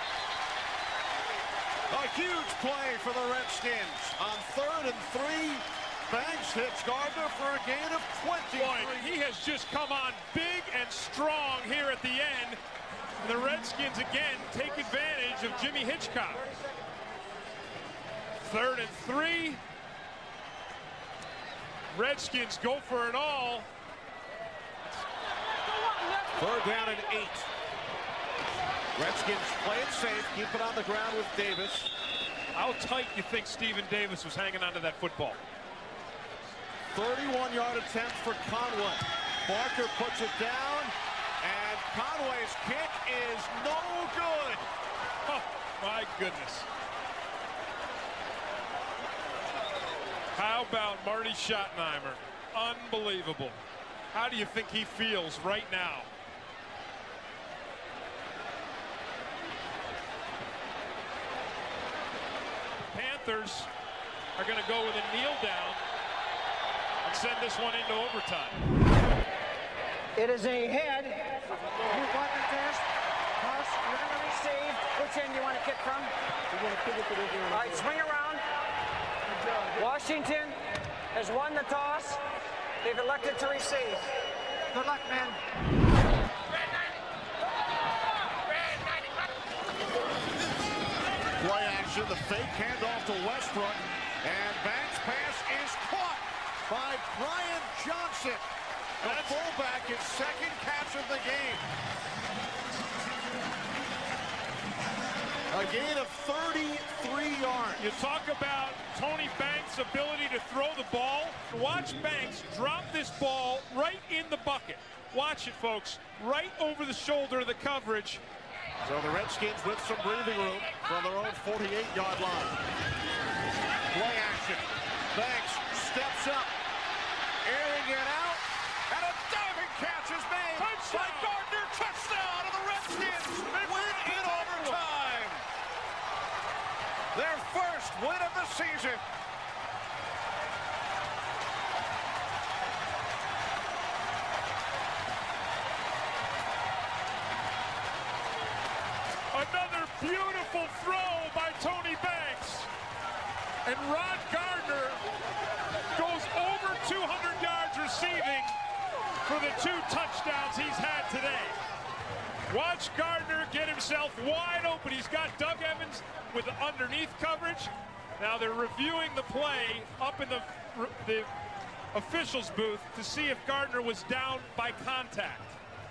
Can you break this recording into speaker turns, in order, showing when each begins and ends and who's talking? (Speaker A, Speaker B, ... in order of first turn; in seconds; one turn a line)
Speaker A: 1.9-9.2
Speaker B: 8.6-12.6
Speaker B: 13.2-16.5
Speaker B: 18.4-19.6
Speaker B: 21.9-23.7
Speaker A: 26.3-27.5
Speaker A: 29.0-31.9
Speaker B: 32.5-35.4
Speaker A: 36.9-44.7
Speaker B: 45.3-46.7
Speaker B: 50.3-53.6
Speaker B: 54.1-56.1
Speaker B: 62.9-63.7
Speaker B: 64.4-65.8
Speaker B: 67.0-68.7
Speaker C: 70.2-72.9
Speaker C: 73.4-76.1
Speaker C: 76.8-78.4
Speaker C: 79.6-82.2
Speaker C: 82.8-84.1
Speaker C: 84.7-85.4
Speaker A: 91.4-98.5
Speaker A: 99.0-101.6
Speaker B: 99.0-99.4
Speaker A: 105.5-107.9
Speaker B: 107.8-118.2
Speaker A: 118.8-122.6
Speaker A: 123.9-126.5
Speaker A: 127.5-135.4
Speaker B: 130.6-131.4
Speaker B: 133.6-134.8
Speaker A: 137.1-139.0
Speaker B: 149.3-152.7
Speaker B: 153.7-155.0
Speaker B: 155.9-158.6
Speaker B: 159.2-161.6
Speaker B: 162.5-171.3
Speaker B: 171.9-175.6